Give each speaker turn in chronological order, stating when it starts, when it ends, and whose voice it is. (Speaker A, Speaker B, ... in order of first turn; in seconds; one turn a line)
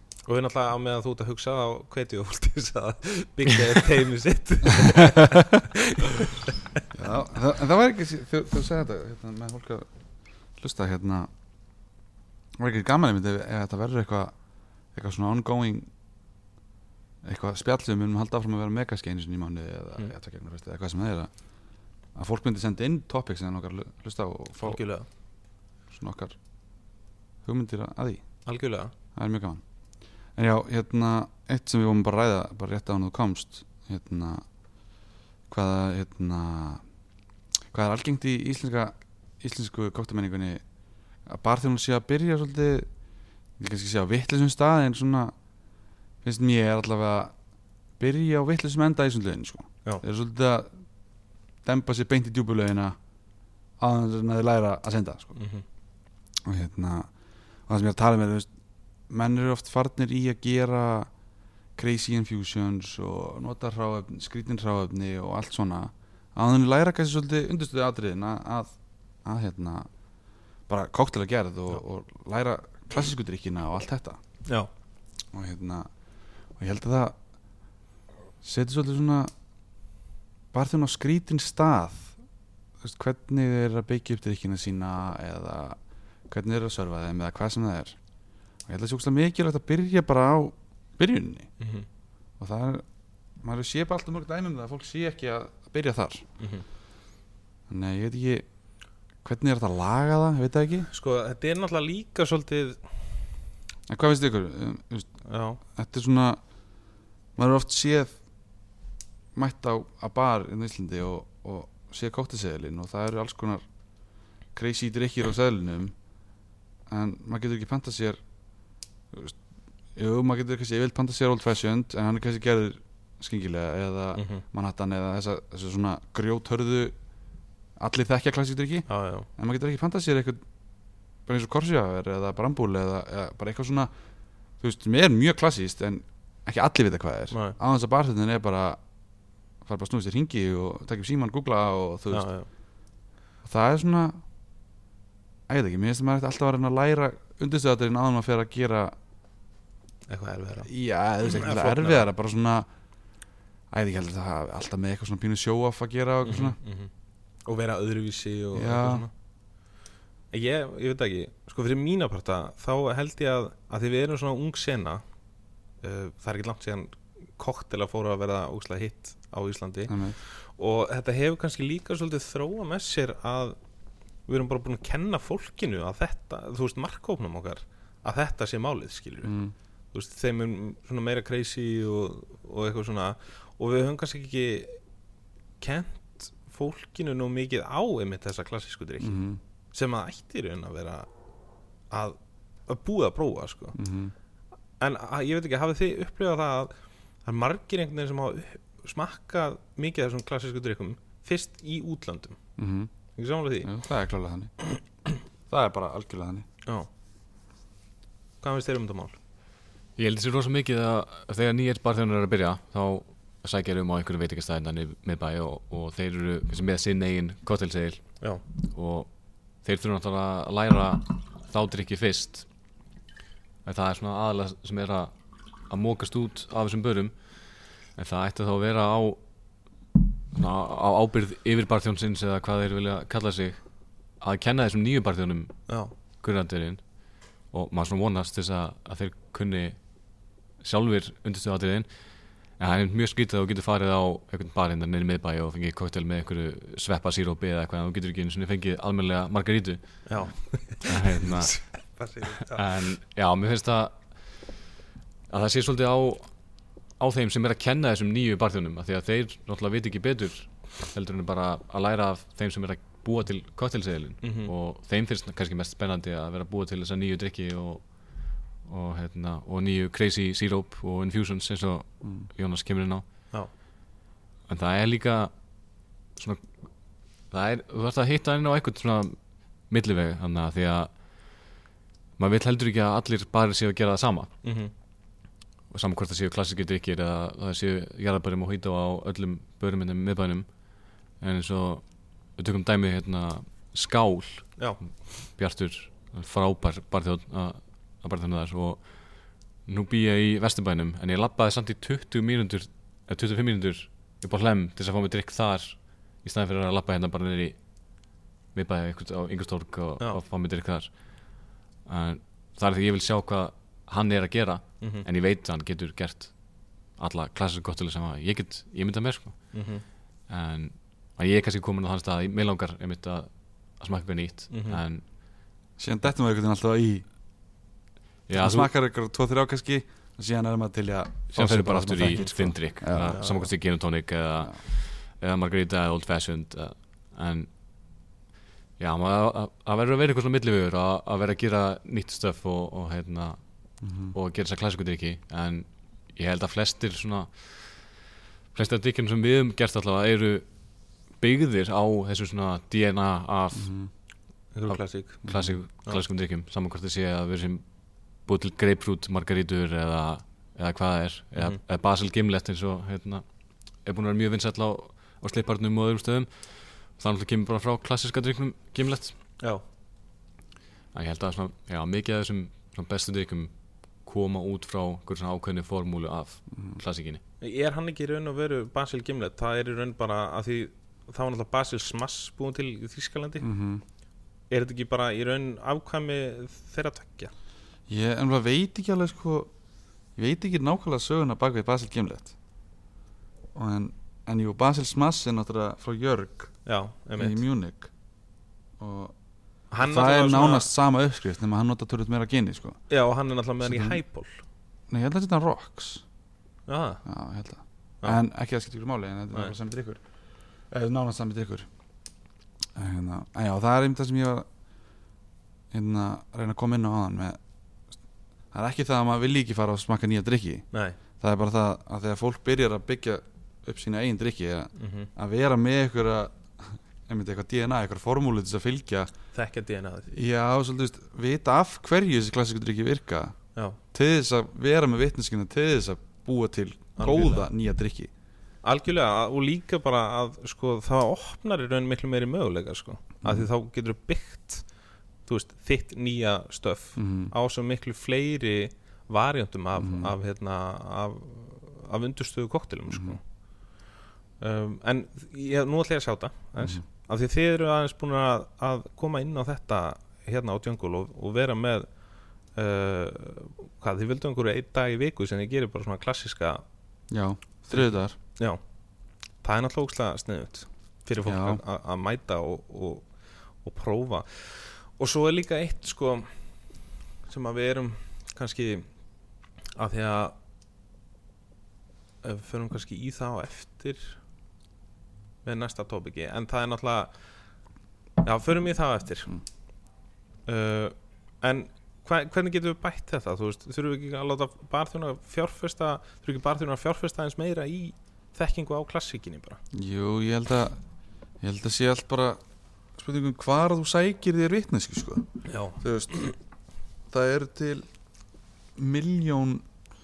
Speaker A: 0.2-6.8
Speaker B: 6.9-9.9
Speaker B: 10.6-11.3
Speaker B: 12.6-14.3
Speaker B: 14.9-15.9
Speaker B: 17.2-21.3
Speaker B: 22.1-24.8
Speaker A: 24.6-25.1
Speaker B: 25.9-26.4
Speaker B: 27.4-28.2
Speaker A: 28.4-28.9
Speaker B: 29.1-29.6
Speaker B: 30.4-34.4
Speaker B: 35.5-36.8
Speaker B: 37.7-40.6
Speaker B: 41.2-42.9
Speaker B: 43.6-45.3
Speaker B: 46.2-47.3
Speaker B: 48.0-50.7
Speaker B: 51.6-53.0
Speaker B: 53.8-55.3
Speaker A: 55.4-55.6
Speaker B: 56.4-57.1
Speaker B: 57.7-58.5
Speaker B: 59.1-61.1
Speaker B: 61.8-68.7
Speaker B: 69.2-69.9
Speaker B: 70.7-74.2
Speaker B: 75.3-75.9
Speaker B: 76.6-77.2
Speaker B: 78.4-79.3
Speaker B: 80.5-82.1
Speaker B: 82.8-85.8
Speaker B: 86.3-88.0
Speaker B: 88.7-91.5
Speaker A: 91.6-91.9
Speaker B: 92.4-92.8
Speaker B: 93.4-96.2
Speaker A: 96.4-96.7
Speaker B: 97.7-98.5
Speaker B: 99.2-100.9
Speaker A: 100.9-102.8
Speaker B: 103.9-105.2
Speaker A: 105.3-105.6
Speaker B: 105.7-106.4
Speaker B: 107.4-108.2
Speaker B: 109.3-113.6
Speaker B: 114.5-115.9
Speaker B: 116.9-118.2
Speaker B: 120.0-126.9
Speaker A: 124.1-124.4
Speaker B: 127.8-130.4
Speaker A: 128.9-129.3
Speaker B: 131.3-133.9
Speaker B: 134.6-138.8
Speaker A: 137.3-137.6
Speaker B: 139.6-142.3
Speaker A: 142.1-142.5
Speaker B: 143.4-144.2
Speaker B: 145.5-148.9
Speaker A: 150.1-150.7
Speaker B: 150.6-152.7
Speaker A: 151.2-152.1
Speaker B: 153.7-156.6
Speaker A: 156.2-156.9
Speaker A: 157.4-159.1
Speaker B: 158.5-159.1
Speaker A: 160.3-165.0
Speaker A: 165.8-173.6
Speaker B: 169.9-170.2
Speaker A: 174.3-179.3
Speaker B: 179.2-179.5
Speaker A: 179.9-184.8
Speaker A: 185.6-189.2
Speaker B: 189.0-189.4
Speaker A: 189.7-191.1
Speaker A: 191.9-193.8
Speaker B: 193.7-194.1
Speaker A: 194.8-196.7
Speaker A: 197.2-202.4
Speaker B: 202.6-202.9
Speaker A: 203.2-203.7
Speaker B: 203.6-204.5
Speaker B: 205.5-206.4
Speaker A: 208.4-209.2
Speaker C: 210.0-219.1
Speaker C: 219.6-222.4
Speaker C: 223.6-225.1
Speaker C: 225.7-227.3
Speaker C: 227.9-229.2
Speaker C: 230.3-233.6
Speaker C: 234.2-235.6
Speaker A: 235.7-235.9
Speaker C: 236.2-236.8
Speaker C: 237.5-239.8
Speaker C: 240.6-241.9
Speaker C: 242.6-250.0
Speaker A: 250.1-252.6
Speaker C: 250.8-251.6
Speaker C: 252.4-254.0
Speaker C: 255.3-256.3
Speaker C: 257.0-267.8
Speaker A: 264.2-264.5
Speaker C: 268.6-273.0
Speaker C: 274.5-275.3
Speaker C: 276.1-276.4
Speaker C: 277.3-279.2
Speaker C: 279.7-280.9
Speaker C: 282.2-284.3
Speaker A: 284.4-284.7
Speaker C: 285.7-290.5
Speaker C: 291.2-291.8
Speaker C: 292.4-294.5
Speaker C: 295.3-298.8
Speaker C: 299.7-307.6
Speaker C: 308.5-310.9
Speaker C: 311.9-316.3
Speaker C: 317.0-319.5
Speaker A: 319.5-319.8
Speaker C: 320.3-325.0
Speaker A: 324.5-324.8
Speaker B: 325.8-327.0
Speaker C: 328.3-328.7
Speaker B: 328.3-333.4
Speaker C: 331.3-337.5
Speaker A: 333.1-333.4
Speaker C: 338.8-343.4
Speaker B: 343.8-344.1
Speaker C: 344.1-347.8
Speaker C: 348.5-350.4
Speaker C: 351.2-353.7
Speaker B: 353.5-353.9
Speaker A: 354.5-355.2
Speaker C: 354.7-357.6
Speaker B: 355.2-355.5
Speaker C: 358.2-363.2
Speaker C: 363.8-366.3
Speaker C: 366.9-369.1
Speaker C: 370.9-373.5
Speaker C: 374.0-377.2
Speaker B: 376.5-376.8
Speaker A: 377.4-383.4
Speaker B: 383.4-383.8
Speaker A: 384.5-387.3
Speaker B: 387.9-389.5
Speaker B: 390.1-392.3
Speaker B: 393.5-396.5
Speaker A: 396.6-397.4
Speaker B: 397.2-397.9
Speaker B: 398.8-399.1
Speaker A: 399.7-400.7
Speaker B: 399.8-402.8
Speaker A: 402.9-404.4
Speaker B: 403.6-404.0
Speaker B: 404.9-406.0
Speaker A: 406.7-407.0
Speaker B: 407.0-410.0
Speaker B: 410.7-411.7
Speaker B: 412.7-414.4
Speaker B: 415.7-417.4
Speaker B: 418.5-420.6
Speaker A: 420.7-421.0
Speaker B: 421.2-429.1
Speaker A: 424.8-425.1
Speaker A: 429.3-430.1
Speaker B: 430.1-433.4
Speaker B: 433.9-438.1
Speaker A: 437.0-437.5
Speaker A: 438.6-444.6
Speaker B: 443.2-443.5
Speaker A: 445.2-453.2
Speaker B: 447.0-447.3
Speaker B: 449.8-450.1
Speaker B: 452.9-453.2
Speaker A: 454.4-461.9
Speaker A: 462.5-466.6
Speaker B: 467.1-468.1
Speaker A: 467.7-468.6
Speaker A: 469.4-473.1
Speaker B: 471.2-471.6
Speaker A: 473.6-476.3
Speaker A: 477.3-478.9
Speaker A: 479.8-480.3
Speaker A: 482.2-484.2
Speaker A: 485.4-487.1
Speaker A: 488.2-489.3
Speaker A: 490.4-499.6
Speaker B: 499.7-500.8
Speaker B: 501.4-502.4
Speaker B: 503.0-505.3
Speaker A: 505.5-505.8
Speaker B: 505.8-506.3
Speaker B: 507.1-507.9
Speaker B: 508.8-509.6